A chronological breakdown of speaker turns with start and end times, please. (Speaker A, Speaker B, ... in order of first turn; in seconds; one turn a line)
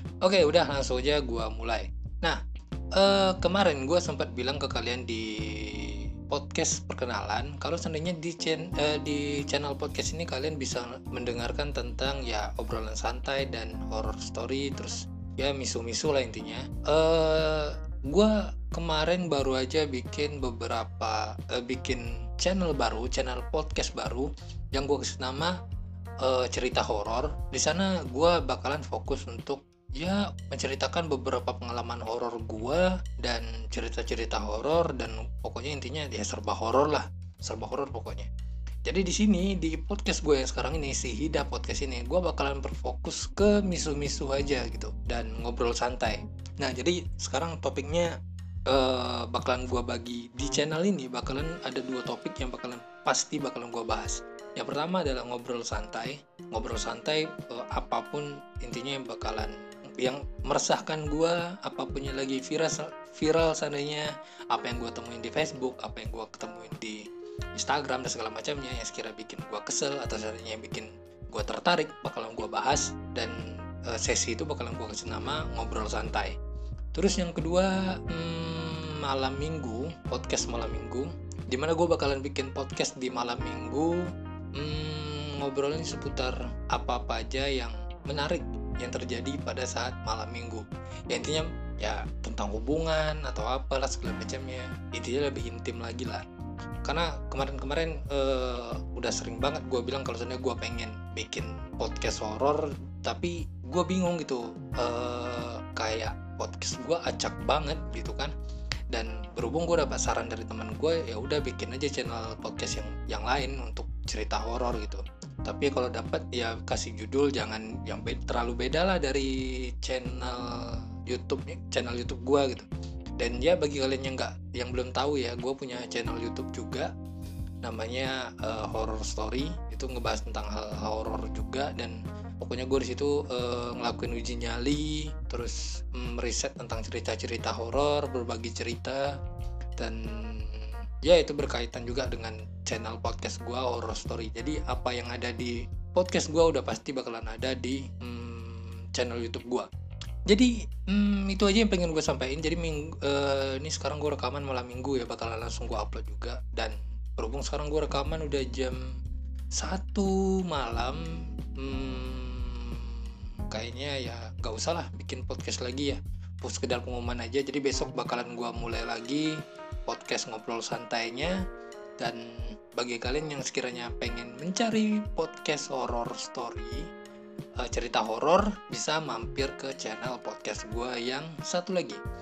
Speaker A: 0.2-2.4
Speaker A: 3.0-25.6
Speaker A: 26.2-38.3
Speaker A: 38.9-48.2
Speaker A: 48.7-67.0
Speaker A: 67.5-76.4
Speaker A: 76.9-96.2
Speaker A: 96.8-108.3
Speaker A: 108.9-122.7
Speaker A: 123.2-126.9
Speaker A: 127.6-139.1
Speaker A: 139.8-149.7
Speaker A: 150.3-158.9
Speaker A: 159.6-171.4
Speaker A: 172.0-176.9
Speaker A: 177.6-182.0